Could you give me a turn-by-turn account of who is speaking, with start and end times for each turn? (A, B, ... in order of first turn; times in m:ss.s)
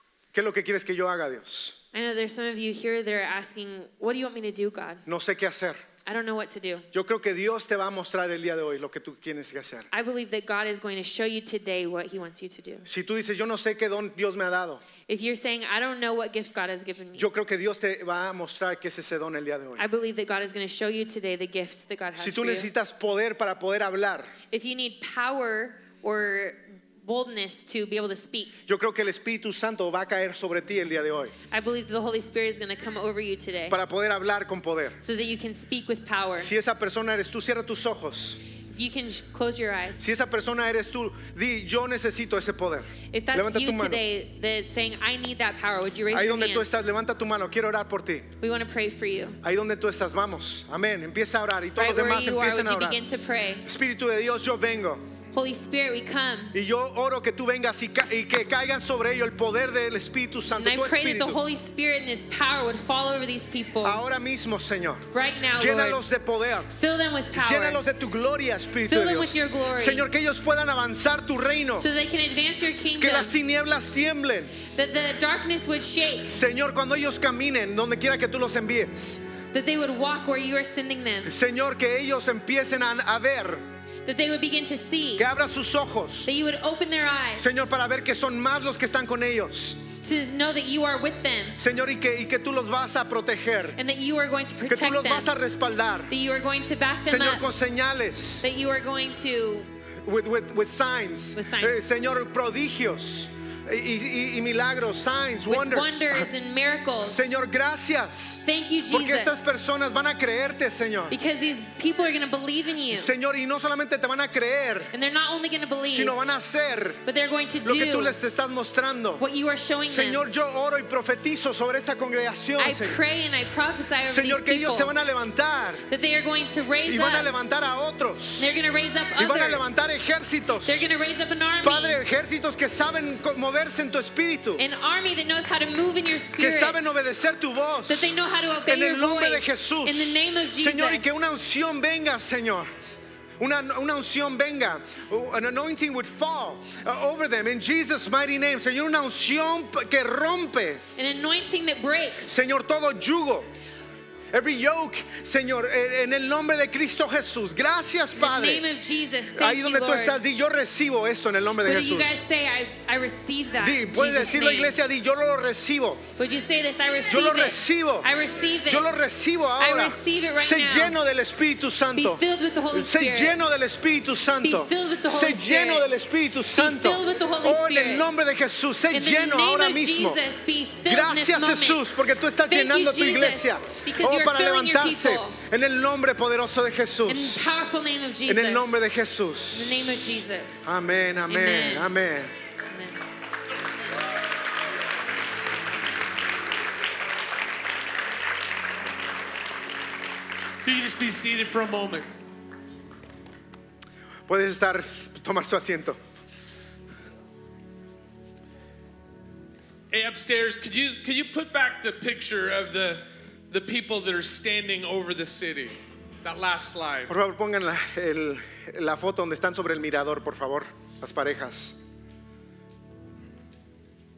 0:00.3-0:01.8 A
0:01.9-0:05.0 B
0:05.1-0:05.8 A
0:06.0-0:06.9 B
0:06.9-0:09.9 A
0:09.9-0:12.9 B
0:12.9-0:14.8 A
0:15.1-0:17.3 B
0:17.2-0:19.8 A
0:19.8-0:22.7 B
0:22.2-0:24.3 A
0:24.5-0:28.6 B
0:28.7-0:31.3 A
0:31.5-0:33.8 B
0:33.7-0:35.0 A
0:35.0-0:36.5 B
0:36.4-0:38.4 A
0:38.7-0:40.1 B
0:40.0-0:44.0 A
0:43.1-0:46.8 B
0:46.1-0:48.3 A
0:48.4-0:49.4 B
0:49.4-0:53.0 A
0:51.8-0:53.7 B
0:53.6-0:55.0 A
0:55.3-0:56.6 B
0:56.5-1:01.4 A
1:00.5-1:04.0 B
1:03.8-1:06.7 A
1:05.1-1:06.0 B
1:06.7-1:07.8 B
1:07.3-1:11.9 A
1:08.8-1:10.1 B
1:11.8-1:13.4 B
1:13.0-1:14.6 A
1:14.7-1:16.4 B
1:16.3-1:19.2 A
1:19.5-1:21.3 B
1:21.2-1:23.6 A
1:24.1-1:25.3 B
1:25.2-1:26.3 A
1:26.2-1:27.7 B
1:27.4-1:29.8 A
1:30.0-1:31.6 B
1:31.6-1:33.8 A
1:33.8-1:35.3 B
1:34.7-1:36.1 A
1:36.1-1:37.4 B
1:37.0-1:38.4 A
1:38.4-1:39.7 B
1:40.0-1:46.3 A
1:41.4-1:41.8 B
1:45.5-1:47.4 B
1:47.1-1:51.2 A
1:48.4-1:49.6 B
1:51.1-1:53.1 B
1:52.9-1:54.9 A
1:54.9-1:56.3 B
1:55.9-1:57.0 A
1:57.0-1:58.2 B
1:57.6-1:59.2 A
1:59.2-2:00.2 B
1:59.8-2:03.0 A
2:02.6-2:04.9 B
2:04.0-2:05.9 A
2:05.9-2:07.3 B
2:06.9-2:08.6 A
2:08.4-2:10.0 B
2:09.2-2:10.9 A
2:10.6-2:12.0 B
2:11.6-2:14.6 A
2:14.6-2:16.8 B
2:16.4-2:22.7 A
2:17.9-2:21.3 B
2:23.4-2:30.8 A
2:31.0-2:32.5 B
2:32.3-2:33.5 A
2:34.3-2:38.6 A
2:38.2-2:40.2 B
2:39.3-2:42.2 A
2:41.6-2:44.8 B
2:43.6-2:46.0 A
2:46.2-2:48.9 B
2:47.1-2:48.1 A
2:48.7-3:00.2 A
2:49.6-2:51.0 B
2:51.9-2:53.4 B
2:54.4-2:55.9 B
2:56.5-2:58.1 B
2:58.9-3:01.8 B
3:00.8-3:07.6 A
3:02.4-3:05.4 B
3:07.1-3:08.9 B
3:08.3-3:09.9 A
3:09.5-3:10.8 B
3:10.7-3:12.4 A
3:11.3-3:11.9 B
3:12.7-3:13.0 B
3:20.6-3:22.1 C
3:24.3-3:26.0 A
3:29.9-3:37.1 C
3:37.1-3:41.8 A